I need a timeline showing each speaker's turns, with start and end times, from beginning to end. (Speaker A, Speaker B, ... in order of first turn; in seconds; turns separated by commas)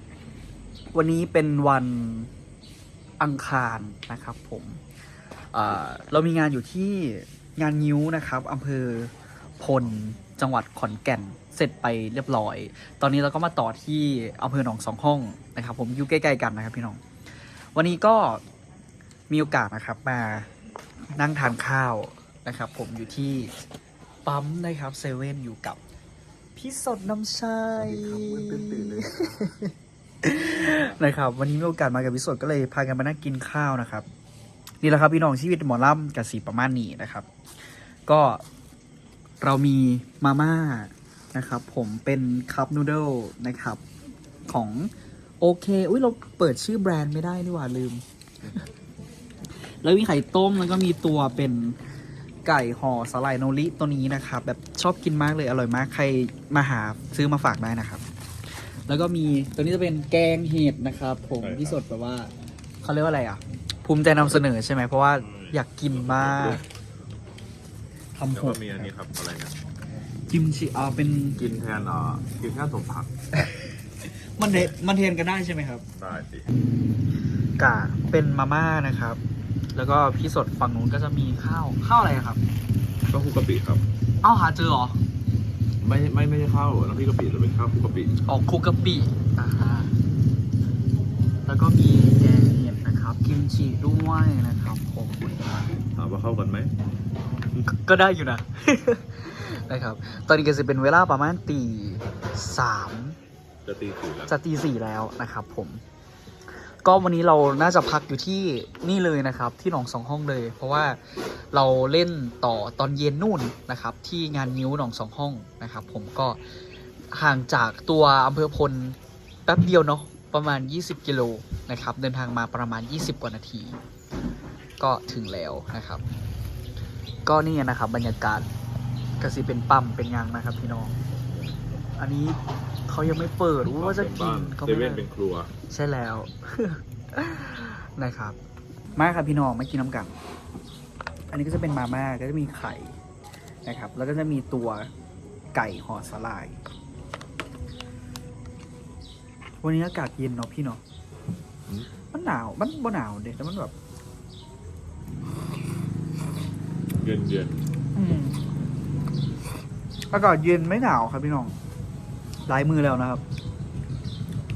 Speaker A: 0.9-2.3, Speaker A: 3.2-4.8, Speaker A: 5.5-17.0, Speaker A: 17.7-18.4, Speaker A: 19.3-20.5, Speaker A: 21.1-23.5, Speaker A: 24.2-25.8, Speaker A: 26.5-29.7, Speaker B: 27.8-29.2, Speaker A: 30.2-34.1, Speaker A: 34.8-37.3, Speaker A: 38.1-38.4, Speaker A: 39.4-43.8, Speaker A: 44.5-48.0, Speaker A: 49.7-51.8, Speaker A: 52.4-58.0, Speaker A: 58.6-66.6, Speaker B: 61.4-61.8, Speaker B: 65.3-66.6, Speaker A: 68.1-68.9, Speaker B: 68.3-69.5, Speaker A: 70.3-71.4, Speaker B: 71.3-73.1, Speaker A: 73.4-75.8, Speaker B: 75.9-76.4, Speaker A: 77.6-79.2, Speaker A: 79.7-82.4, Speaker B: 83.1-83.8, Speaker A: 84.2-85.0, Speaker B: 85.8-88.2, Speaker A: 88.2-89.9, Speaker A: 91.5-95.7, Speaker B: 95.9-96.7, Speaker A: 97.5-103.2, Speaker B: 103.7-104.3, Speaker A: 104.3-105.8, Speaker A: 106.7-116.4, Speaker A: 117.1-123.8, Speaker A: 124.8-126.0, Speaker A: 127.2-128.5, Speaker A: 129.2-130.9, Speaker B: 131.2-131.8, Speaker A: 132.0-135.1, Speaker B: 133.6-135.5, Speaker A: 135.7-138.4, Speaker A: 138.9-140.2, Speaker A: 141.3-142.9, Speaker A: 143.6-144.9, Speaker A: 145.5-146.6, Speaker A: 149.6-150.8, Speaker A: 152.1-153.7, Speaker B: 157.0-157.5, Speaker A: 157.9-158.4, Speaker A: 160.1-161.6, Speaker A: 162.5-163.2